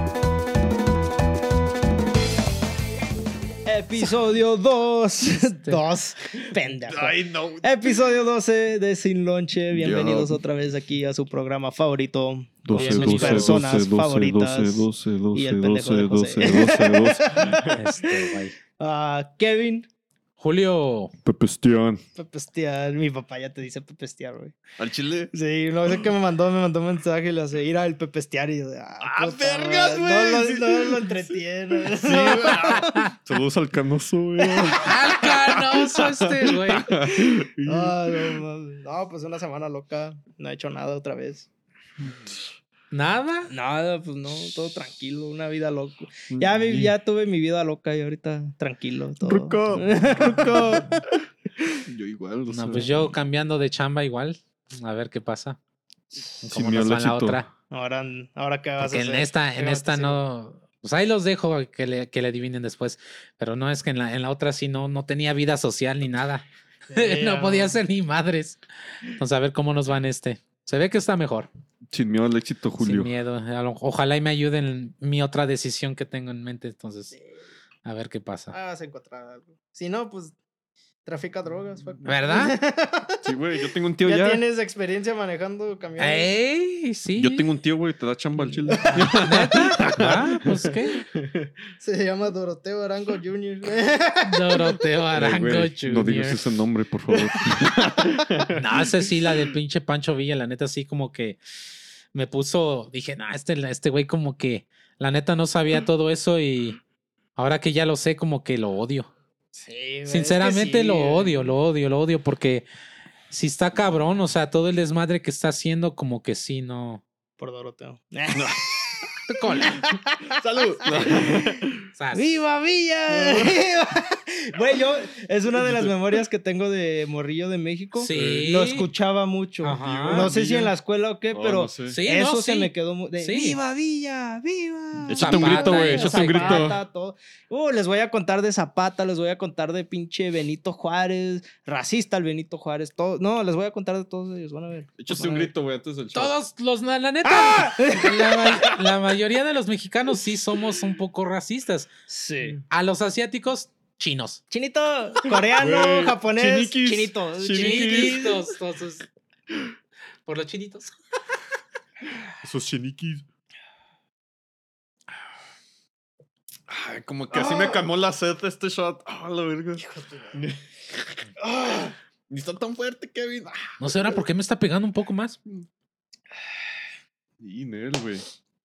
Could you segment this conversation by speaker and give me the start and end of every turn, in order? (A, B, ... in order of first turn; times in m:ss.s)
0:03.7-0:19.9 A
0:06.8-0:08.1 B
0:09.7-0:10.4 B
0:12.6-0:17.8 B
0:12.8-0:13.6 C
0:17.7-0:18.6 C
0:20.4-0:21.1 C
0:21.2-0:22.0 B
0:22.2-0:24.6 A
0:24.8-0:25.3 B
0:25.3-0:33.1 A
0:29.0-0:38.4 B
0:34.8-0:36.9 C
0:37.1-0:41.5 A
0:42.9-0:43.5 C
0:43.5-0:51.0 A
0:46.3-0:46.9 B
0:49.2-0:51.0 B
0:51.9-0:53.1 B
0:52.5-0:55.6 C
0:56.4-0:57.4 C
0:56.4-0:57.4 B
0:57.7-1:00.2 A
0:58.8-1:11.5 C
1:06.9-1:07.8 A
1:11.9-1:13.1 B
1:12.8-1:17.2 C
1:17.8-1:18.6 C
1:18.5-1:20.4 A
1:21.1-1:23.2 A
1:22.0-1:22.6 C
1:23.2-1:24.4 B
1:24.0-1:26.3 A
1:26.0-1:27.4 C
1:27.2-1:31.5 B
1:28.7-1:29.1 A
1:29.2-1:31.0 C
1:31.8-1:34.8 A
1:34.2-1:36.4 C
1:35.2-1:38.6 B
1:38.5-1:41.4 C
1:42.1-1:46.8 C
1:47.4-1:49.1 C
1:49.6-1:51.4 A
1:50.1-1:52.6 C
1:53.3-1:57.0 C
1:57.4-1:58.9 A
1:58.3-1:58.6 B
1:59.3-1:59.8 C
1:59.7-2:00.4 A
2:00.4-2:01.8 B
2:01.0-2:01.3 A
2:02.0-2:02.3 C
2:02.1-2:25.5 A
2:03.1-2:03.6 B
2:05.6-2:05.9 B
2:08.0-2:08.9 C
2:08.1-2:08.4 B
2:09.6-2:10.4 C
2:09.8-2:10.7 B
2:11.3-2:12.0 B
2:11.9-2:13.6 C
2:15.1-2:16.8 B
2:15.2-2:16.7 C
2:25.0-2:26.3 B
2:26.1-2:31.9 C
2:27.2-2:28.6 A
2:32.1-2:32.6 A
2:32.7-2:34.4 C
2:34.5-2:38.4 A
2:35.2-2:38.4 B
2:37.6-2:39.1 C
2:40.2-2:40.9 C
2:42.4-2:43.2 B
2:46.7-2:51.2 B
2:47.3-2:47.8 A
2:49.8-2:50.4 A
2:51.4-2:52.0 A
2:52.3-2:53.7 B
2:53.8-2:55.4 C
2:57.4-2:58.2 B